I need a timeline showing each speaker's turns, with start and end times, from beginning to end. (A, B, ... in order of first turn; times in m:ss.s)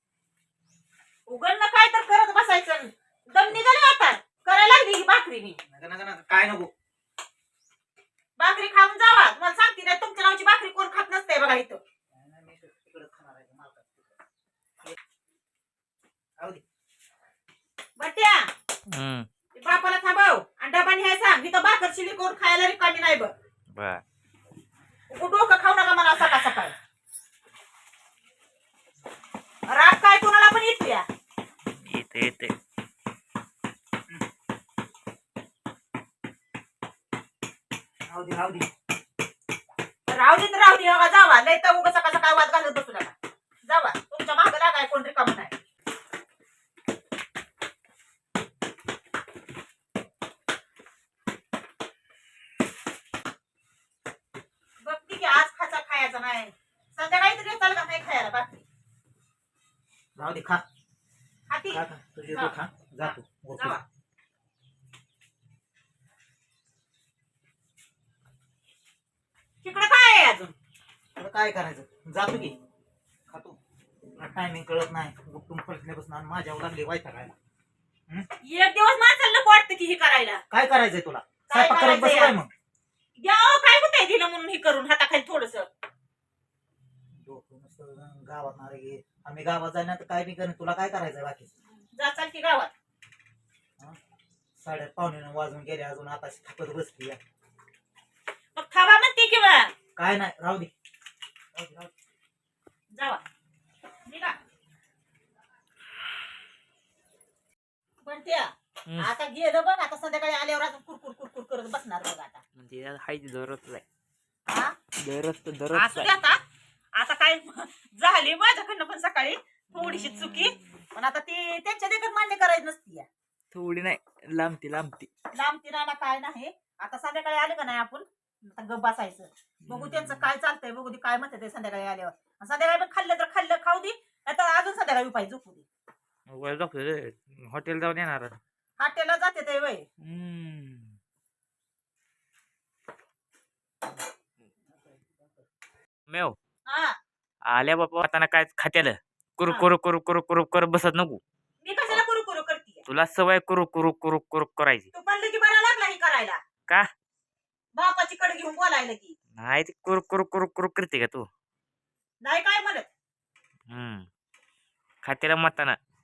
0:01.3-0:05.6 A
0:05.7-0:06.7 B
0:08.4-0:11.8 A
0:12.1-0:14.1 B
0:18.0-0:18.5 A
0:18.9-0:19.3 C
0:19.6-0:23.3 A
0:23.8-0:24.0 C
0:25.1-0:26.7 A
0:29.7-0:31.1 A
0:31.8-0:32.6 C
0:38.1-0:38.7 B
0:40.1-0:43.2 A
0:43.7-0:45.6 A
0:54.8-0:58.6 A
1:00.2-1:00.6 B
1:01.5-1:03.8 A
1:01.7-1:03.8 B
1:09.6-1:10.6 A
1:11.2-1:12.6 B
1:13.3-1:13.6 B
1:14.2-1:17.4 B
1:18.4-1:20.4 A
1:20.5-1:22.5 B
1:21.5-1:22.4 A
1:23.2-1:25.7 A
1:27.1-1:31.5 B
1:31.9-1:32.7 A
1:34.6-1:37.2 B
1:38.6-1:39.7 A
1:40.0-1:40.7 B
1:41.5-1:41.9 B
1:42.9-1:43.2 A
1:44.1-1:44.4 A
1:48.0-1:52.4 A
1:52.6-1:53.8 C
1:54.5-1:54.8 A
1:55.0-1:56.1 C
1:55.7-1:56.4 A
1:57.0-2:03.1 A
1:59.8-2:00.8 C
2:03.5-2:05.1 C
2:05.3-2:15.7 A
2:09.6-2:10.3 C
2:16.3-2:18.4 C
2:18.8-2:19.9 A
2:20.0-2:21.0 C
2:24.7-2:25.3 B
2:26.1-2:26.4 C
2:26.7-2:27.0 A
2:27.4-2:31.2 C
2:31.6-2:32.8 A
2:32.9-2:34.9 C
2:34.9-2:36.4 A
2:37.8-2:39.2 A
2:39.4-2:41.3 C
2:42.2-2:42.9 A
2:43.7-2:44.1 C
2:45.0-2:45.8 C